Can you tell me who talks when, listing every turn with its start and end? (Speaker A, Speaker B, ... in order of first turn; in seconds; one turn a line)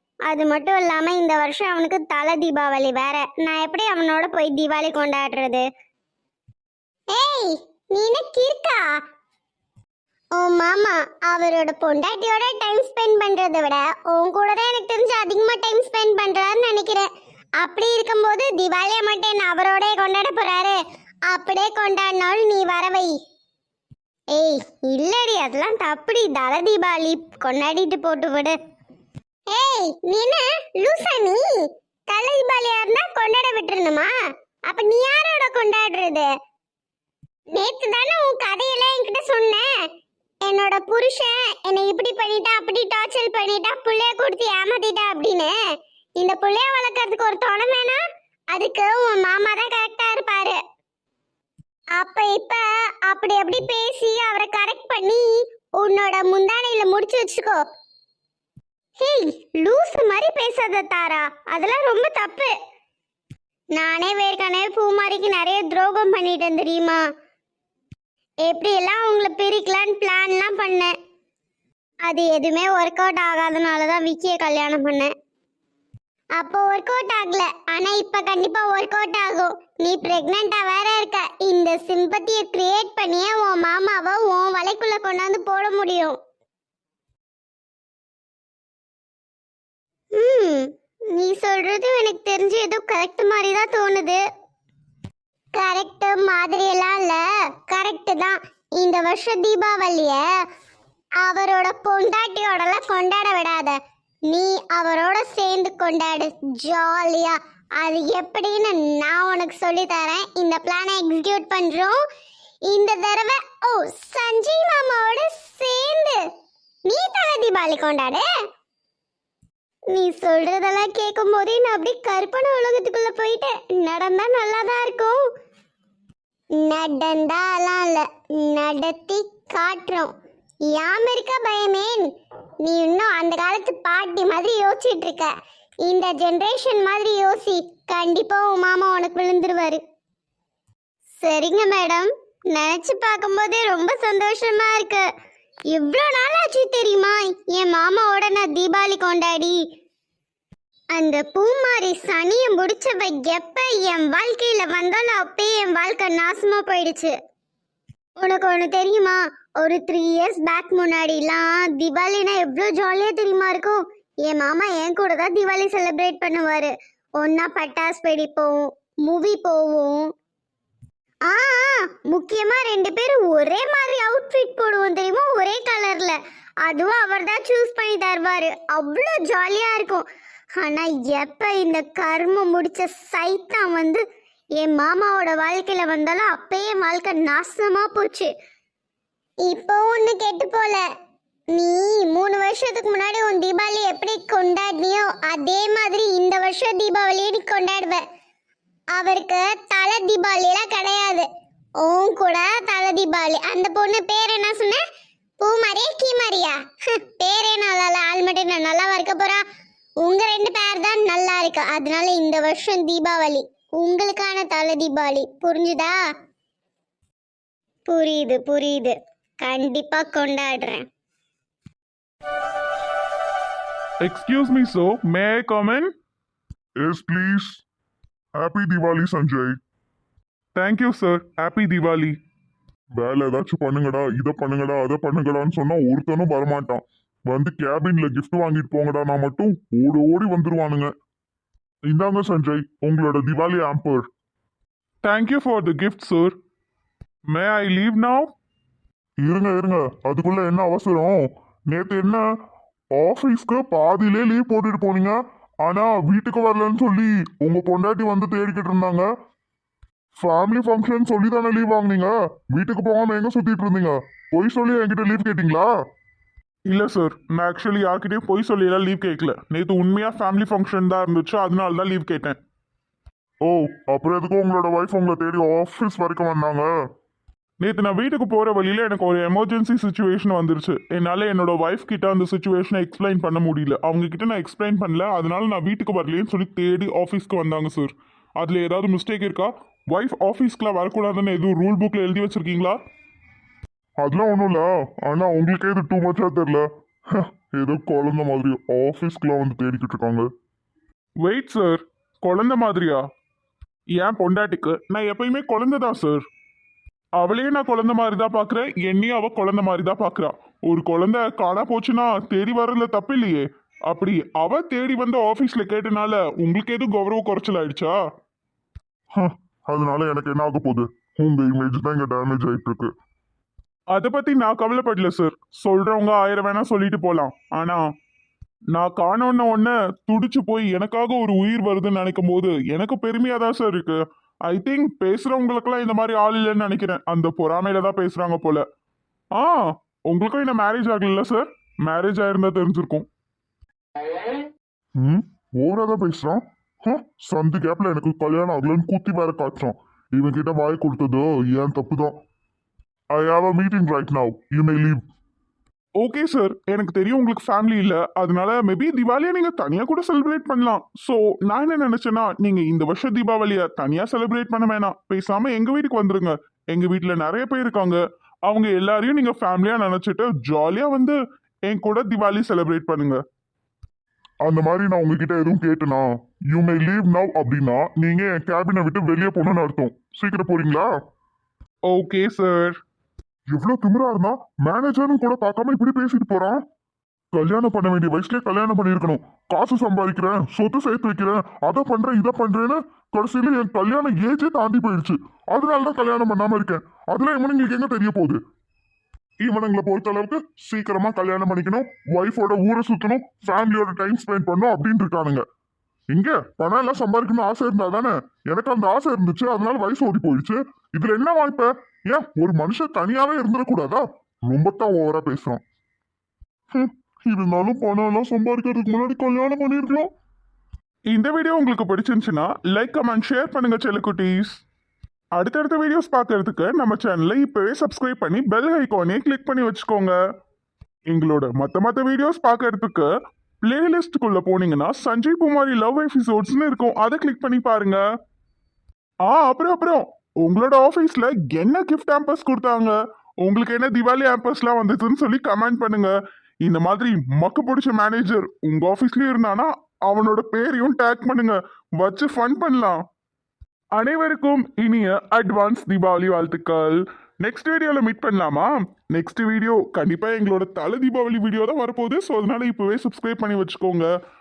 Speaker A: 0.3-5.6
Speaker A: 7.1-8.8
Speaker A: 10.3-17.1
Speaker A: 17.6-20.8
Speaker A: 21.3-23.1
Speaker A: 24.3-28.6
Speaker A: 29.5-31.6
Speaker A: 32.1-34.1
Speaker A: 34.7-36.3
Speaker A: 37.5-39.7
Speaker A: 40.4-45.5
Speaker A: 46.2-48.0
Speaker A: 48.5-50.6
Speaker A: 52.0-57.6
Speaker A: 59.0-62.5
Speaker A: 63.7-67.0
Speaker A: 68.4-70.9
Speaker A: 72.0-75.1
Speaker A: 76.4-86.2
Speaker A: 90.2-94.2
Speaker A: 95.5-100.2
Speaker A: 101.2-103.8
Speaker A: 104.3-112.0
Speaker A: 112.7-116.2
Speaker A: 116.9-118.2
Speaker A: 119.9-125.2
Speaker A: 126.6-130.1
Speaker A: 130.7-132.1
Speaker A: 132.6-135.3
Speaker A: 135.8-139.8
Speaker A: 141.2-145.0
Speaker A: 145.7-149.6
Speaker A: 150.9-157.1
Speaker A: 158.2-170.1
Speaker A: 171.3-180.1
Speaker A: 180.6-184.0
Speaker A: 184.6-188.3
Speaker A: 189.4-190.8
Speaker A: 191.5-198.0
Speaker A: 198.9-201.2
Speaker A: 201.8-204.8
Speaker A: 205.4-209.4
Speaker A: 210.0-216.0
Speaker A: 217.9-220.8
Speaker B: 224.0-225.9
Speaker C: 226.8-227.6
Speaker C: 228.4-229.6
Speaker B: 230.6-232.1
Speaker C: 232.9-240.9
Speaker C: 241.9-244.1
Speaker B: 245.0-246.3
Speaker B: 247.3-248.3
Speaker C: 249.2-252.2
Speaker C: 252.9-259.1
Speaker C: 260.2-265.7
Speaker B: 266.7-272.4
Speaker C: 273.4-276.7
Speaker B: 277.6-292.8
Speaker C: 294.0-300.3
Speaker B: 301.2-303.0
Speaker B: 304.0-306.2
Speaker B: 307.2-317.9
Speaker C: 319.1-322.9
Speaker B: 323.9-327.8
Speaker B: 328.7-338.6
Speaker B: 339.4-343.1
Speaker C: 345.0-352.1
Speaker C: 353.1-355.0
Speaker B: 356.0-371.1
Speaker B: 371.7-373.2
Speaker C: 374.4-380.9
Speaker B: 381.9-382.8
Speaker C: 383.5-386.6
Speaker C: 387.3-398.4
Speaker C: 399.4-405.4
Speaker C: 406.1-415.6
Speaker C: 416.7-420.1
Speaker B: 421.1-424.6
Speaker B: 425.4-430.1
Speaker B: 431.1-433.1
Speaker B: 433.6-438.0
Speaker B: 439.2-453.0
Speaker B: 453.9-464.1